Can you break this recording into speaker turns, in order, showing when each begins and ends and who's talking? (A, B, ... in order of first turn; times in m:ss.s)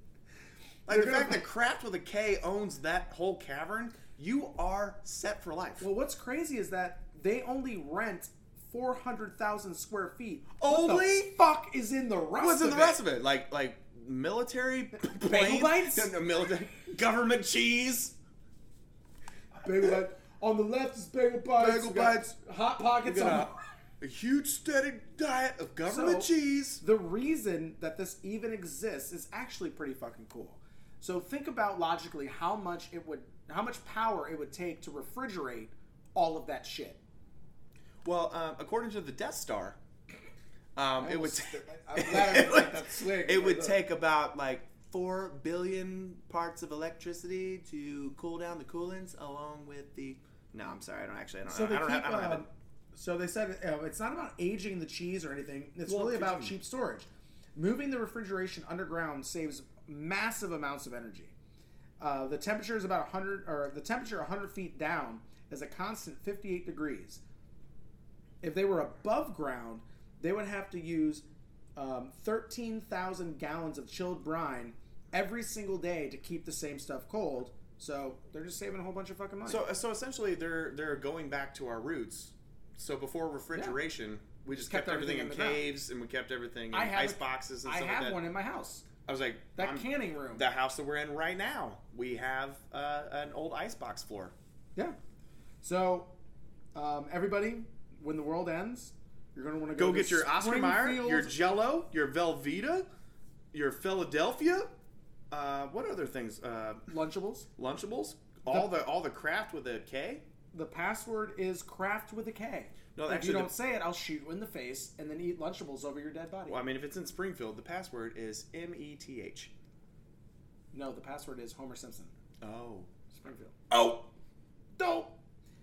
0:00.9-0:05.8 A
0:00.9-0:01.4 B
0:05.8-0:13.0 B
0:10.6-0:11.3 A
0:12.4-0:18.2 A
0:15.1-0:16.1 B
0:19.6-0:23.6 B
0:21.6-0:22.4 A
0:23.0-0:26.8 A
0:25.9-0:37.0 B
0:38.0-0:39.8 A
0:40.8-0:52.4 A
0:41.0-0:43.8 B
0:51.5-1:01.3 B
0:55.9-0:56.6 A
1:02.0-1:07.2 B
1:08.4-1:19.7 B
1:19.5-1:28.2 A
1:23.5-1:23.8 B
1:24.5-1:25.7 B
1:26.7-1:28.8 B
1:29.1-1:34.4 A
1:29.6-1:30.5 B
1:35.6-1:36.1 B
1:36.8-1:41.3 B
1:39.8-1:42.9 A
1:43.5-1:44.7 A
1:45.3-1:46.8 A
1:46.9-1:47.5 B
1:47.6-1:50.2 A
1:48.5-1:48.7 B
1:50.5-1:56.6 B
1:53.0-1:53.5 A
1:56.5-1:59.5 A
2:00.7-2:02.1 B
2:02.4-2:02.9 A
2:03.1-2:03.6 B
2:03.7-2:04.1 A
2:04.8-2:05.1 B